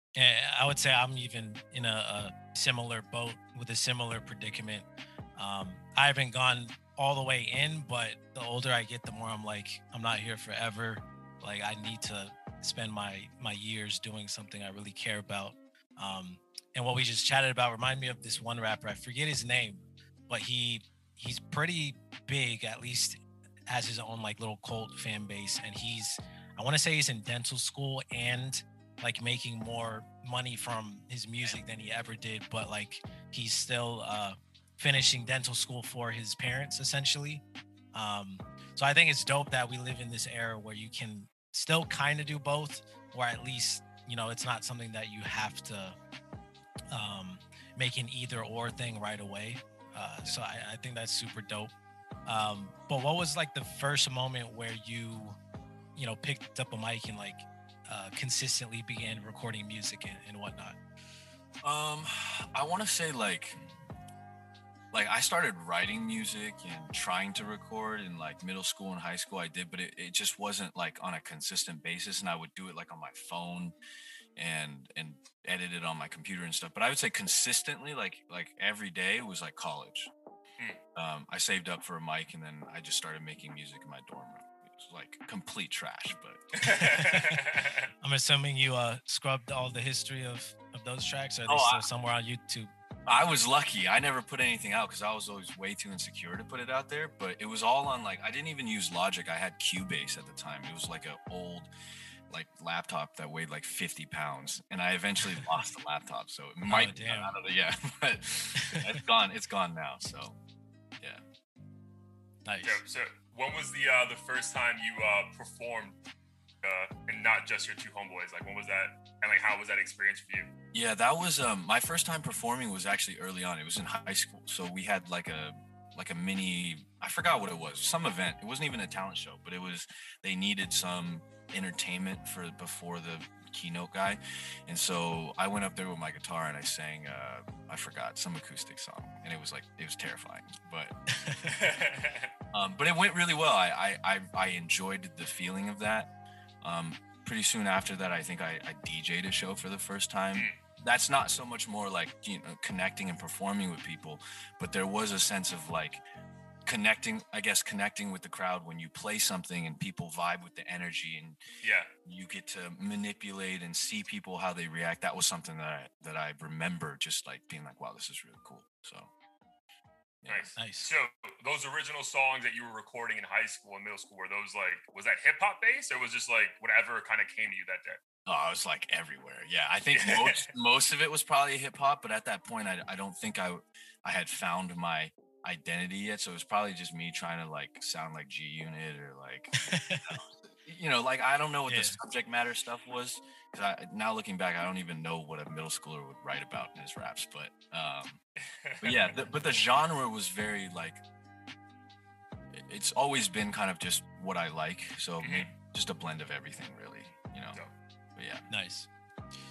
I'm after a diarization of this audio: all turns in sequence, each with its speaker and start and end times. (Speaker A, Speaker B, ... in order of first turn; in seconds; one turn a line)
Speaker A: 0.2-37.4
Speaker A: 37.9-46.0
Speaker A: 46.9-51.7
Speaker A: 52.3-55.4
Speaker A: 56.0-60.8
Speaker B: 61.6-63.6
Speaker B: 64.9-73.8
Speaker B: 74.4-80.1
Speaker B: 81.0-87.0
Speaker C: 86.5-87.9
Speaker A: 88.0-92.7
Speaker B: 91.5-91.8
Speaker B: 93.1-101.7
Speaker B: 102.3-110.4
Speaker A: 106.7-107.4
Speaker A: 108.6-108.8
Speaker A: 112.5-112.8
Speaker C: 112.6-116.0
Speaker C: 116.6-120.5
Speaker B: 120.7-141.0
Speaker C: 141.4-142.3
Speaker B: 142.5-146.1
Speaker B: 146.6-156.0
Speaker C: 150.3-150.6
Speaker B: 156.7-161.4
Speaker C: 161.6-161.9
Speaker B: 162.1-169.1
Speaker B: 170.2-170.5
Speaker C: 170.3-178.0
Speaker A: 170.6-170.9
Speaker B: 178.3-198.2
Speaker C: 179.9-180.5
Speaker A: 189.6-190.2
Speaker A: 191.7-192.0
Speaker C: 198.6-199.2
Speaker B: 198.8-201.0
Speaker B: 202.5-207.6
Speaker C: 205.2-205.5
Speaker B: 208.2-208.5
Speaker A: 208.5-208.9